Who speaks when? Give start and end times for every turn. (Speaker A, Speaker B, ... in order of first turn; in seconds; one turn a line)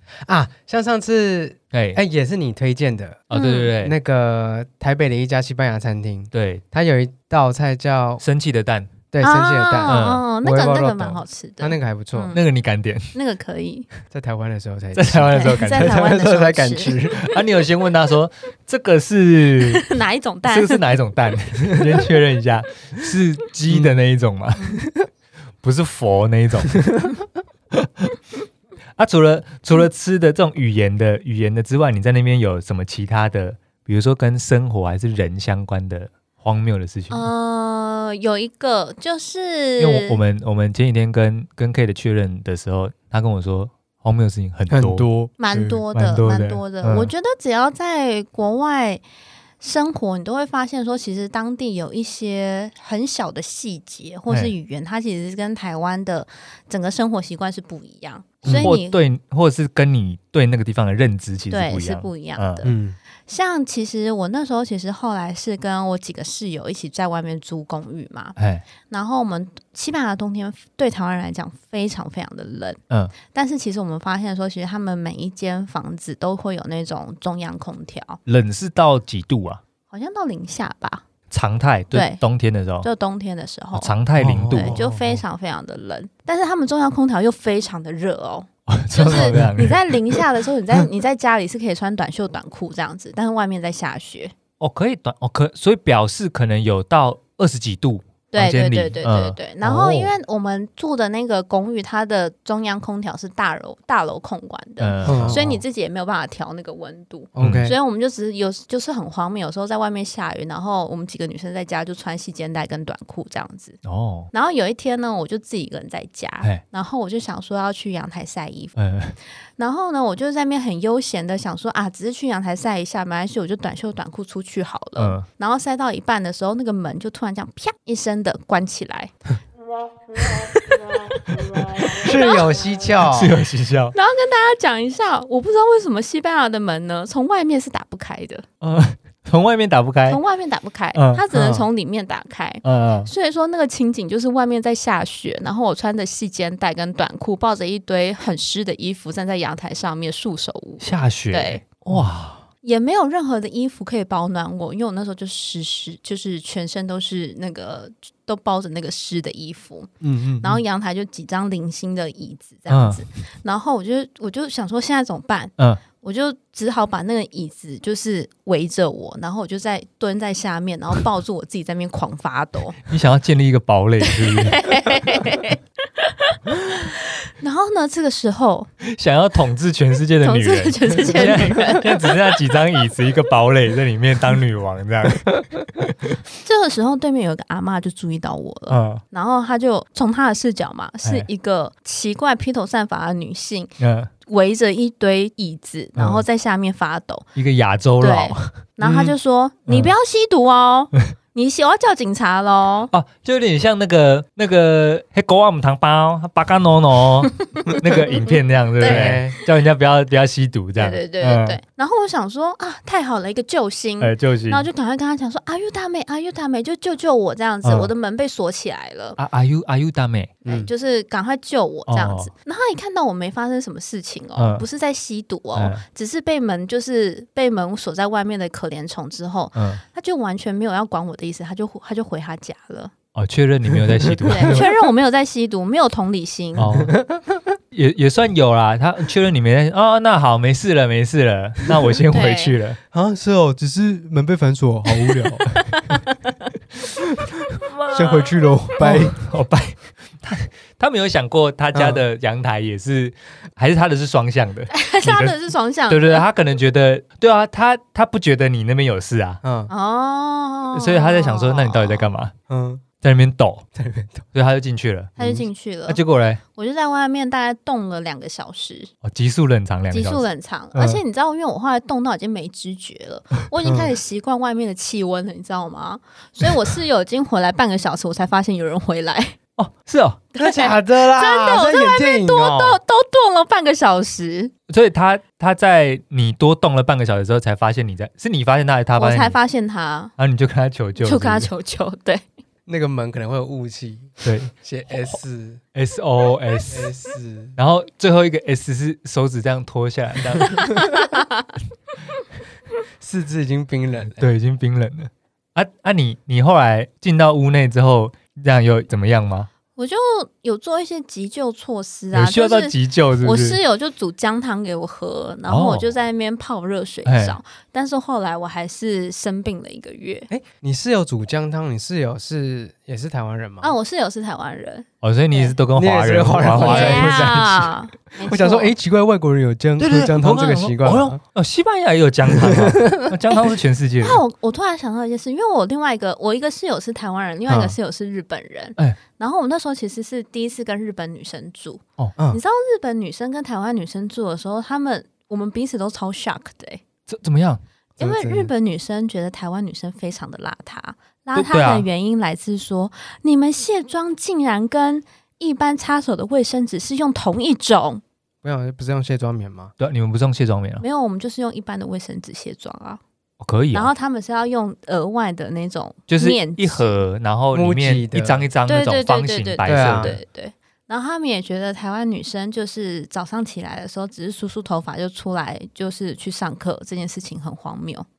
Speaker A: 0.2-8.2
Speaker B: 1.7-2.0
Speaker B: 3.3-3.9
Speaker C: 3.3-3.7
Speaker B: 6.3-6.6
Speaker B: 8.2-8.9
Speaker A: 9.1-12.3
Speaker C: 9.2-12.4
Speaker B: 9.9-10.2
Speaker B: 12.3-13.1
Speaker C: 13.1-13.9
Speaker A: 14.1-17.2
Speaker B: 14.9-16.0
Speaker C: 15.3-16.9
Speaker B: 17.1-19.8
Speaker C: 19.6-20.9
Speaker B: 20.5-24.6
Speaker A: 23.7-23.9
Speaker B: 25.6-26.9
Speaker B: 27.7-28.1
Speaker B: 29.0-37.3
Speaker C: 37.1-40.2
Speaker B: 39.8-47.1
Speaker A: 44.7-45.6
Speaker C: 45.4-49.0
Speaker C: 49.6-59.0
Speaker B: 54.3-54.5
Speaker A: 58.4-58.7
Speaker B: 58.5-62.7
Speaker C: 61.5-62.7
Speaker A: 62.6-63.0
Speaker C: 63.3-68.3
Speaker B: 68.4-68.6
Speaker C: 68.9-78.2
Speaker B: 78.2-79.6
Speaker C: 79.9-81.0
Speaker B: 81.3-82.9
Speaker C: 81.9-82.2
Speaker C: 82.8-83.9
Speaker B: 83.7-85.1
Speaker A: 84.2-85.0
Speaker C: 84.5-94.3
Speaker B: 88.7-90.2
Speaker B: 94.6-99.4
Speaker C: 98.3-113.8
Speaker A: 99.6-100.1
Speaker B: 104.8-105.4
Speaker A: 105.0-105.6
Speaker A: 107.3-107.8
Speaker B: 107.4-107.7
Speaker B: 113.8-114.3
Speaker C: 114.3-118.7
Speaker B: 118.8-119.2
Speaker C: 119.6-129.1
Speaker B: 125.0-125.2
Speaker C: 130.1-132.5
Speaker A: 132.0-133.3
Speaker B: 133.0-133.9
Speaker C: 133.9-138.4
Speaker B: 138.6-140.2
Speaker C: 140.1-151.6
Speaker B: 140.9-141.2
Speaker A: 141.3-141.6
Speaker B: 142.6-143.1
Speaker B: 150.8-152.4
Speaker C: 152.6-159.9
Speaker A: 160.0-160.6
Speaker C: 160.4-172.8
Speaker B: 162.7-163.0
Speaker B: 172.9-174.6
Speaker C: 174.0-178.7
Speaker B: 178.8-185.9
Speaker C: 180.2-182.0
Speaker C: 186.4-193.7
Speaker B: 188.7-189.0
Speaker B: 193.8-194.1
Speaker C: 194.2-197.3
Speaker B: 195.9-196.2
Speaker B: 197.3-199.1
Speaker C: 198.0-202.9
Speaker B: 199.7-199.9
Speaker B: 202.9-211.6
Speaker C: 207.6-208.0
Speaker C: 208.8-209.2
Speaker A: 208.8-209.3
Speaker C: 210.8-219.2
Speaker B: 214.0-214.7
Speaker B: 217.6-217.9
Speaker B: 219.2-220.3
Speaker C: 220.4-232.9
Speaker B: 221.9-222.3
Speaker B: 224.4-224.6
Speaker B: 225.5-225.8
Speaker B: 229.5-229.8
Speaker B: 233.1-234.7
Speaker A: 233.7-234.7
Speaker C: 234.3-236.8
Speaker B: 236.6-236.9
Speaker A: 236.8-237.2
Speaker B: 237.7-242.8
Speaker C: 242.1-242.5
Speaker A: 242.9-245.4
Speaker C: 245.5-246.3
Speaker B: 247.6-255.3
Speaker A: 247.9-249.2
Speaker A: 251.7-252.0
Speaker C: 254.7-256.2
Speaker B: 255.9-259.4
Speaker A: 259.4-259.7
Speaker C: 259.7-262.1
Speaker B: 260.7-262.3
Speaker A: 262.5-262.8
Speaker B: 263.0-263.6
Speaker A: 263.7-264.2
Speaker B: 264.3-265.1
Speaker C: 265.2-266.0
Speaker A: 265.2-265.4
Speaker B: 265.9-266.4
Speaker C: 266.5-268.9
Speaker B: 269.0-271.0
Speaker C: 269.9-279.4
Speaker A: 273.6-273.9
Speaker B: 279.6-280.2
Speaker C: 280.3-284.5
Speaker A: 280.4-282.8
Speaker B: 284.7-289.4
Speaker C: 288.9-290.1
Speaker B: 290.2-291.5
Speaker C: 291.0-292.2
Speaker A: 292.7-295.6
Speaker B: 294.2-294.5
Speaker B: 295.7-296.9
Speaker A: 296.7-297.5
Speaker B: 297.6-300.8
Speaker C: 300.6-301.5
Speaker A: 303.0-304.3
Speaker B: 304.2-309.5
Speaker C: 309.7-320.3
Speaker B: 312.1-313.6
Speaker B: 315.5-315.9
Speaker B: 317.1-317.4
Speaker A: 320.3-323.7
Speaker C: 323.6-325.6
Speaker B: 325.0-327.8
Speaker A: 325.7-327.4
Speaker C: 326.5-328.7
Speaker A: 328.3-331.2
Speaker B: 329.8-334.2
Speaker A: 332.3-333.1
Speaker C: 334.0-346.8
Speaker A: 337.5-337.8
Speaker B: 347.1-347.6
Speaker C: 348.0-358.0
Speaker A: 348.0-348.5
Speaker B: 351.3-351.9
Speaker A: 358.4-359.7
Speaker B: 359.8-360.8
Speaker C: 360.8-363.0
Speaker B: 363.4-363.9
Speaker C: 363.7-367.0
Speaker B: 366.1-370.2
Speaker A: 367.5-368.4
Speaker C: 368.6-378.1
Speaker A: 369.6-370.2